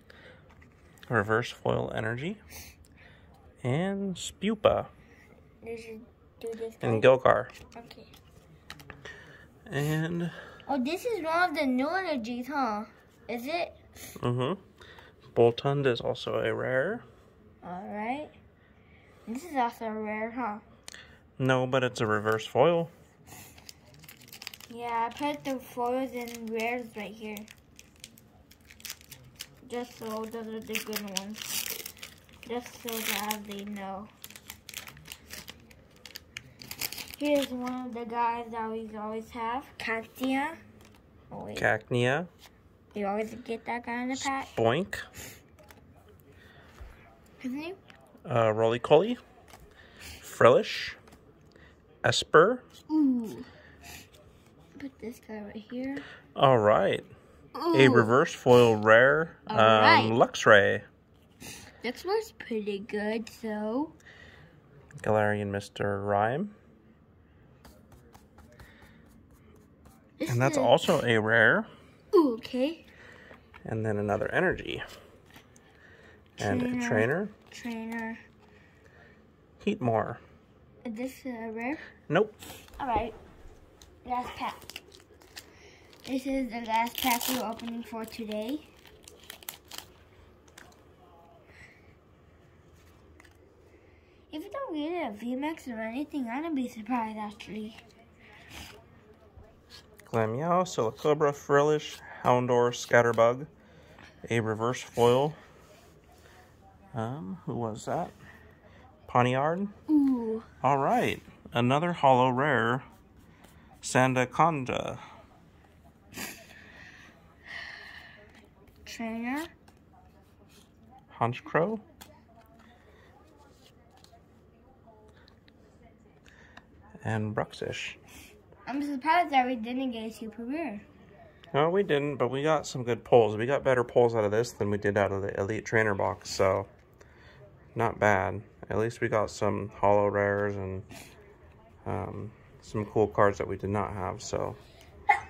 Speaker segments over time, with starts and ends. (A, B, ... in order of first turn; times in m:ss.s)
0:01.1-0:02.4 A
0:03.6-0:04.9 A
0:05.6-0:07.1 B
0:06.8-0:07.5 A
0:07.7-0:08.1 B
0:09.7-0:10.3 A
0:10.7-0:13.8 B
0:14.2-0:14.6 A
0:15.3-0:17.0 A
0:17.6-0:18.3 B
0:19.3-0:20.6 B
0:21.4-0:22.9 A
0:24.7-0:27.5 B
0:29.6-0:31.7 B
0:32.4-0:34.1 B
0:37.2-0:40.6 B
0:41.3-0:41.7 B
0:41.6-0:42.3 A
0:42.9-0:44.5 B
0:44.1-0:45.0 A
0:47.4-0:47.8 B
0:48.2-0:49.2 A
0:50.2-0:51.0 A
0:52.0-0:52.6 A
0:52.9-0:53.5 B
0:54.8-0:56.0 B
0:56.3-0:57.1 A
0:57.6-0:58.1 B
0:57.7-1:00.8 A
0:59.5-1:00.2 B
1:01.8-1:03.9 B
1:05.0-1:06.6 A
1:10.2-1:10.8 B
1:10.3-1:11.7 A
1:12.1-1:12.8 B
1:13.6-1:14.8 A
1:16.4-1:18.2 B
1:16.4-1:17.3 A
1:19.6-1:20.2 A
1:20.8-1:21.8 B
1:22.1-1:22.4 A
1:22.8-1:23.2 B
1:24.0-1:24.8 B
1:26.0-1:28.7 B
1:34.3-1:37.8 B
1:40.0-1:43.5 A
1:44.2-1:45.4 A
1:46.9-1:48.1 A
1:49.1-1:49.7 A
1:49.9-1:50.5 B
1:50.6-1:52.8 A
1:53.8-1:55.0 A
1:58.8-1:59.5 B
2:01.1-2:01.8 A
2:07.0-2:08.0 A
2:08.6-2:10.8 B
2:11.5-2:16.7 A
2:17.7-2:20.8 A
2:21.8-2:24.6 A